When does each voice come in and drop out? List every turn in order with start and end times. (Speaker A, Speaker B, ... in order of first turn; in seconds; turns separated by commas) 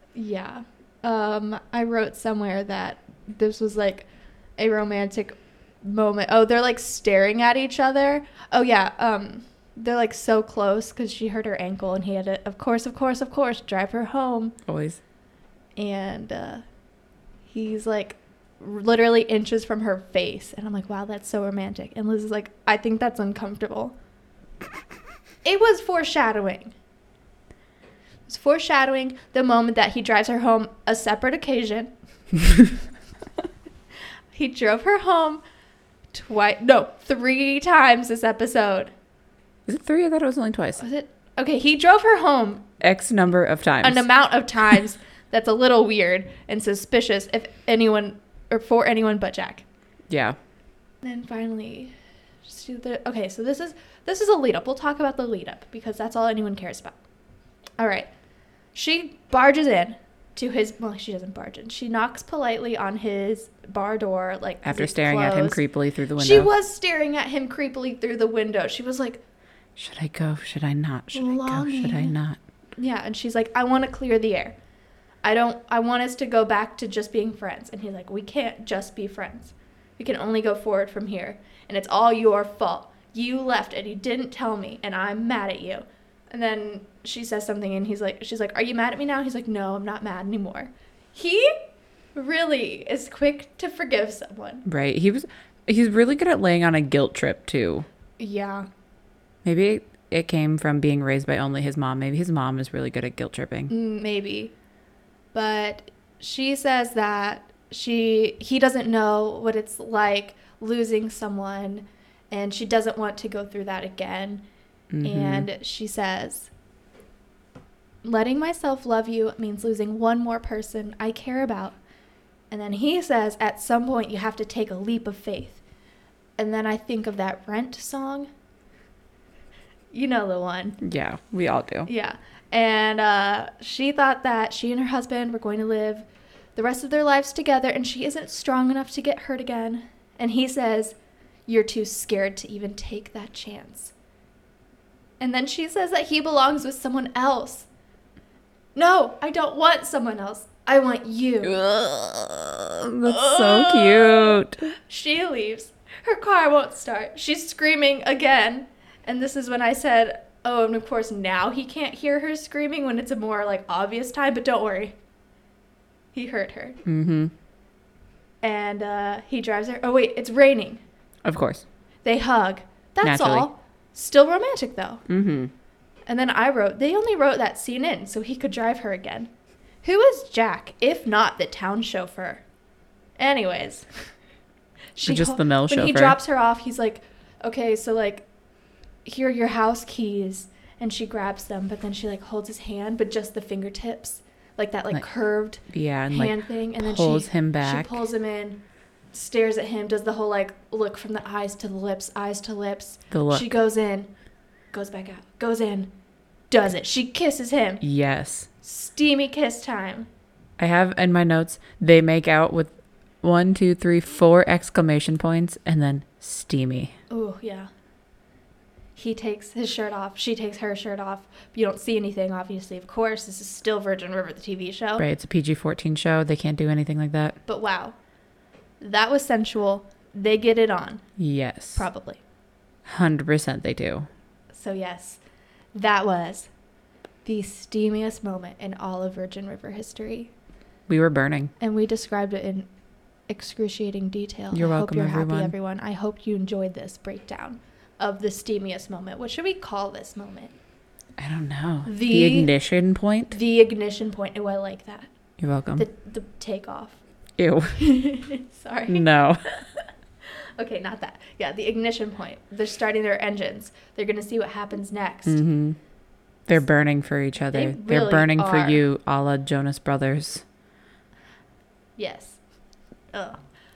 Speaker A: 0.1-14.5, Speaker B: 14.7-15.0, Speaker A: 15.8-16.6, Speaker A: 17.5-23.9, Speaker A: 25.4-26.7, Speaker A: 28.3-31.9, Speaker A: 34.3-35.4, Speaker A: 36.1-38.9, Speaker B: 39.7-40.8, Speaker A: 40.8-42.7, Speaker B: 42.8-44.0, Speaker A: 43.8-49.6, Speaker B: 50.1-50.4, Speaker A: 51.0-51.9, Speaker A: 52.5-56.9, Speaker A: 57.8-58.1, Speaker A: 58.7-65.6, Speaker B: 64.6-66.5, Speaker A: 66.2-69.2, Speaker B: 69.8-72.4, Speaker A: 71.1-72.2, Speaker A: 72.8-74.5, Speaker A: 75.2-91.5, Speaker A: 92.1-94.6, Speaker B: 94.6-97.9, Speaker A: 98.2-98.7, Speaker B: 99.4-103.7, Speaker A: 103.7-104.5, Speaker A: 105.3-114.4, Speaker B: 114.9-115.5, Speaker A: 115.0-116.5, Speaker A: 118.0-121.8, Speaker A: 122.5-125.6, Speaker A: 126.4-128.3, Speaker A: 129.9-130.8, Speaker B: 130.8-131.9, Speaker A: 131.8-143.9, Speaker A: 145.2-147.7, Speaker A: 148.7-151.6, Speaker B: 151.4-154.6, Speaker A: 153.1-164.9, Speaker A: 166.1-166.8, Speaker B: 166.8-167.3, Speaker A: 168.4-170.8, Speaker B: 171.2-171.6, Speaker A: 172.0-175.0, Speaker B: 173.0-173.5, Speaker B: 175.1-175.5, Speaker A: 176.1-179.3, Speaker A: 179.8-182.4, Speaker A: 183.2-183.8, Speaker A: 184.9-188.2, Speaker B: 185.0-186.2, Speaker A: 189.0-198.6, Speaker B: 195.7-197.9, Speaker A: 199.1-204.1, Speaker B: 203.1-203.5, Speaker A: 204.7-205.9, Speaker A: 206.5-207.8, Speaker B: 207.8-208.5, Speaker A: 208.6-210.1, Speaker B: 210.6-216.9, Speaker A: 217.1-217.7, Speaker A: 218.9-225.1, Speaker B: 225.0-227.4, Speaker A: 227.5-227.9, Speaker A: 228.8-231.0, Speaker B: 231.2-231.8, Speaker A: 231.8-232.2, Speaker B: 232.8-234.1, Speaker A: 234.5-235.2, Speaker A: 235.7-236.5, Speaker A: 237.2-240.3, Speaker B: 240.9-241.5, Speaker A: 241.6-242.7, Speaker A: 243.3-250.5, Speaker B: 244.5-245.5, Speaker B: 251.2-253.3, Speaker A: 251.8-252.5, Speaker A: 253.3-255.1, Speaker B: 255.4-255.8, Speaker A: 255.8-257.0, Speaker B: 257.4-257.8, Speaker A: 257.8-259.1, Speaker B: 258.9-259.4, Speaker A: 260.6-265.4, Speaker B: 265.2-265.8, Speaker B: 266.5-270.4, Speaker A: 267.5-268.8, Speaker A: 272.0-272.4, Speaker A: 273.1-273.4